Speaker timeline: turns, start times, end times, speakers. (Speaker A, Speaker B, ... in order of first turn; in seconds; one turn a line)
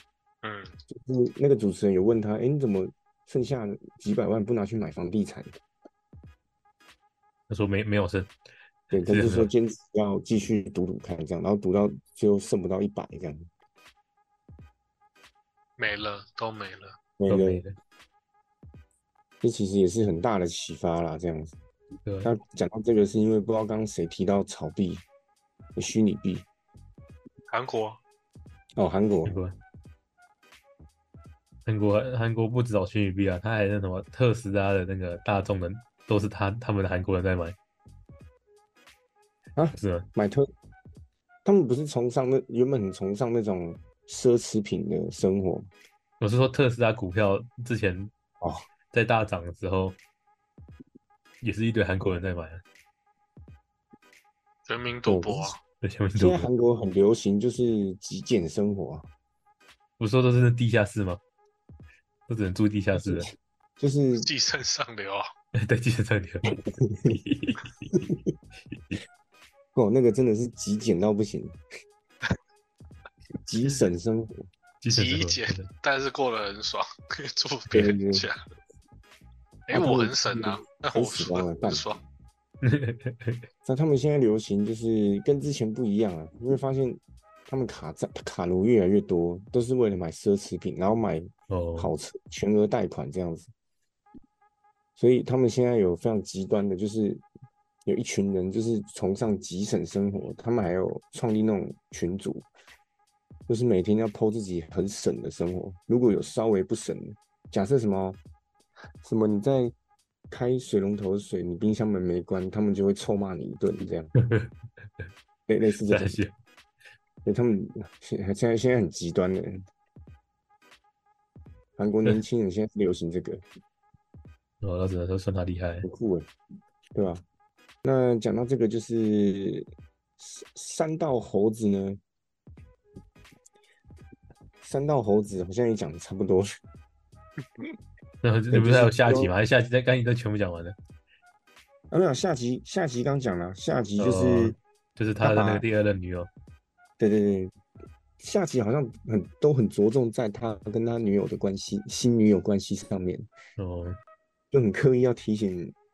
Speaker A: 0.4-0.8
Speaker B: 0.9-5.6
Speaker C: 7.5-8.3
Speaker B: 8.9-13.5
Speaker C: 9.0-9.5
Speaker A: 15.8-17.0
Speaker B: 17.2-17.6
Speaker C: 17.3-17.7
Speaker B: 19.4-21.6
Speaker C: 22.0-22.3
Speaker B: 22.2-25.0
Speaker B: 25.8-26.4
Speaker A: 27.5-28.0
Speaker B: 28.8-29.4
Speaker C: 29.2-29.5
Speaker C: 31.6-37.6
Speaker B: 39.6-40.5
Speaker C: 39.8-40.1
Speaker B: 41.4-45.7
Speaker C: 46.2-48.1
Speaker C: 48.9-50.0
Speaker C: 51.4-52.6
Speaker A: 54.6-55.6
Speaker B: 55.1-55.6
Speaker C: 55.8-56.5
Speaker B: 56.1-59.1
Speaker C: 60.0-61.2
Speaker C: 62.3-63.3
Speaker B: 63.0-64.3
Speaker A: 64.1-65.3
Speaker C: 65.5-66.5
Speaker B: 66.7-67.2
Speaker C: 67.1-67.9
Speaker B: 67.9-68.2
Speaker B: 69.7-71.6
Speaker B: 73.4-74.5
Speaker C: 74.8-75.7
Speaker A: 74.9-78.4
Speaker B: 77.7-78.3
Speaker A: 79.7-82.0
Speaker B: 79.7-81.9
Speaker C: 82.6-83.4
Speaker B: 83.6-93.5
Speaker C: 91.5-91.9
Speaker B: 95.0-97.2
Speaker B: 97.8-102.5
Speaker B: 103.5-108.2
Speaker B: 109.0-109.7
Speaker B: 110.3-114.1
Speaker C: 114.2-114.5
Speaker B: 115.5-116.2
Speaker C: 115.9-116.3
Speaker B: 117.2-119.7
Speaker B: 121.8-123.4
Speaker C: 124.6-125.9
Speaker B: 125.8-126.3
Speaker B: 126.9-127.2
Speaker B: 127.8-132.0
Speaker B: 134.6-136.5
Speaker C: 138.2-140.8
Speaker B: 138.5-139.3
Speaker B: 141.9-144.6
Speaker C: 144.0-146.3
Speaker B: 145.2-145.6
Speaker B: 147.0-147.5
Speaker B: 148.2-153.3
Speaker C: 153.6-154.0
Speaker B: 154.5-155.7